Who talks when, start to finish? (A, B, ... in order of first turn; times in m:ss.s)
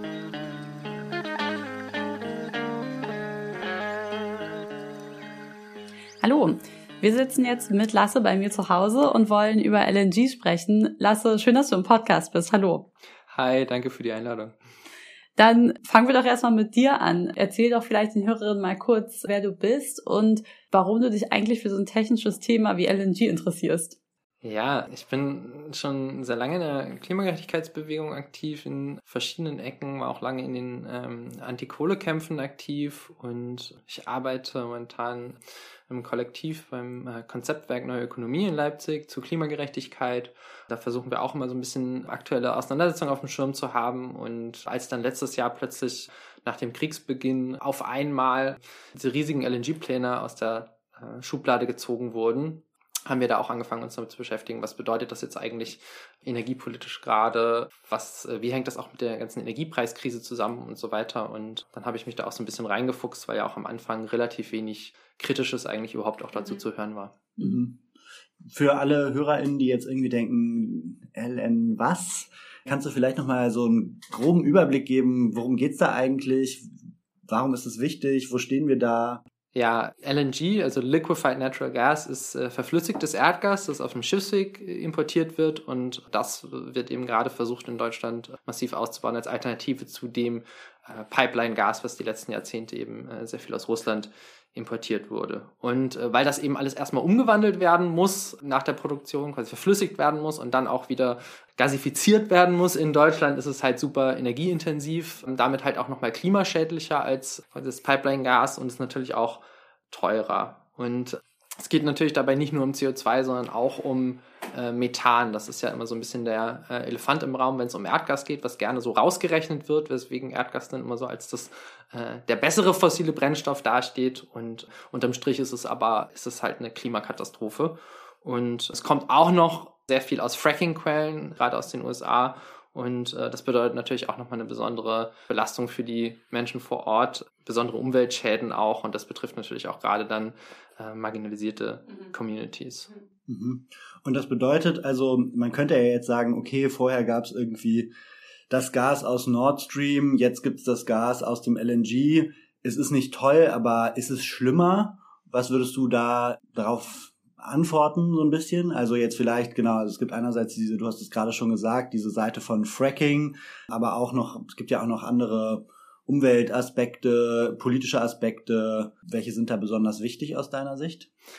0:06.2-0:12.9 A
0:13.3-0:14.6 B
0:15.4-0:24.0 A
0:24.4-0:35.4 B
0:35.9-1:07.3 B
1:07.4-1:07.8 C
1:08.4-1:16.7 C
1:17.3-1:19.2 C
1:19.6-2:22.9 B
2:23.3-2:27.9 C
2:28.5-2:51.1 C